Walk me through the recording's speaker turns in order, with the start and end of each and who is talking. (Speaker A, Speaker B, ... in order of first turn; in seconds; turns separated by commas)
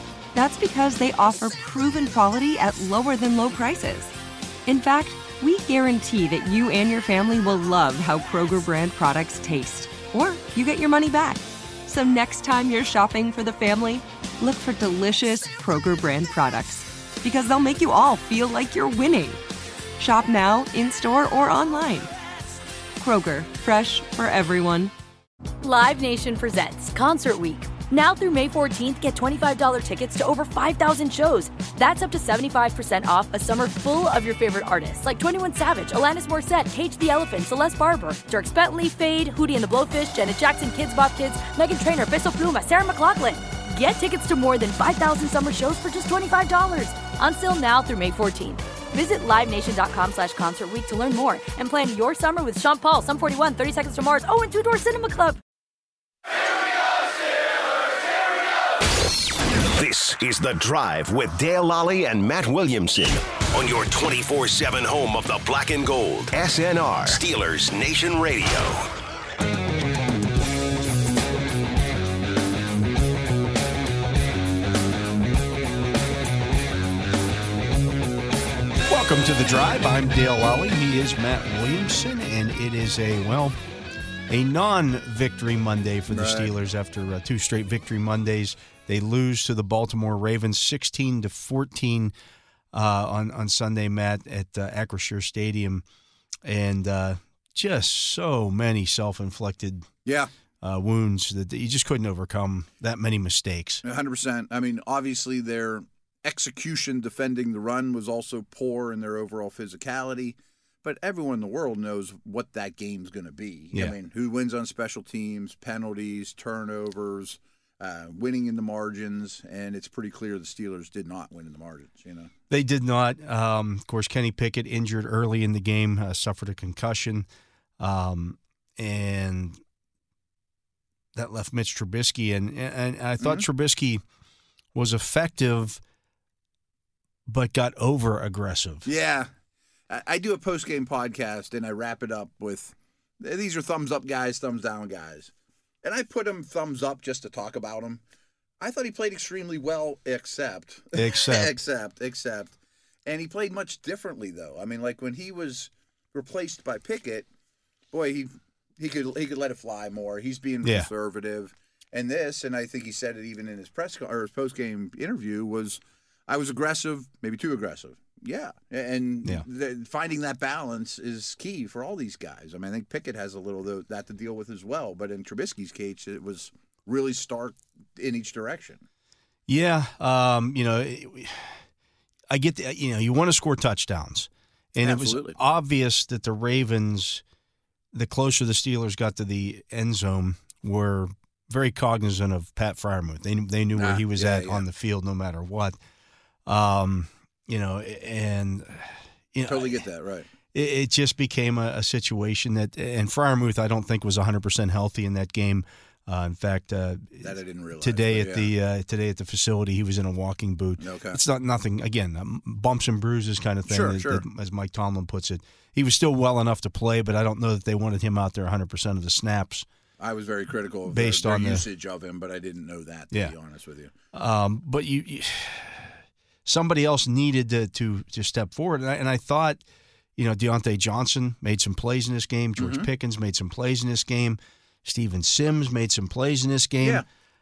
Speaker A: 0.3-4.2, Speaker A: 4.7-19.4, Speaker A: 20.0-22.1, Speaker A: 23.0-24.9, Speaker B: 25.6-55.4, Speaker C: 59.6-68.9, Speaker D: 78.8-83.6, Speaker D: 84.3-92.1, Speaker E: 86.1-86.5, Speaker D: 92.7-95.8, Speaker D: 96.4-99.9, Speaker E: 100.0-100.3, Speaker D: 100.6-103.8, Speaker E: 103.8-122.3, Speaker D: 122.5-127.3, Speaker D: 127.8-129.6, Speaker D: 131.2-134.0, Speaker E: 133.2-133.5, Speaker D: 134.7-135.8, Speaker D: 137.3-138.9, Speaker E: 138.8-139.3, Speaker E: 139.9-145.3, Speaker E: 145.8-148.0, Speaker E: 148.6-152.5, Speaker D: 150.9-151.5, Speaker E: 153.1-157.3, Speaker E: 157.9-178.8, Speaker D: 160.6-160.9, Speaker D: 179.5-181.6, Speaker D: 182.3-187.2, Speaker E: 184.8-185.4, Speaker D: 187.9-195.8, Speaker E: 193.8-194.7, Speaker D: 196.5-199.8, Speaker E: 199.5-200.3, Speaker D: 200.5-219.7, Speaker E: 207.2-208.5, Speaker E: 210.8-211.2, Speaker E: 213.7-214.2, Speaker E: 220.0-223.9, Speaker D: 220.9-221.7, Speaker D: 224.1-225.9, Speaker D: 226.5-229.6, Speaker D: 230.2-237.0, Speaker E: 232.6-232.9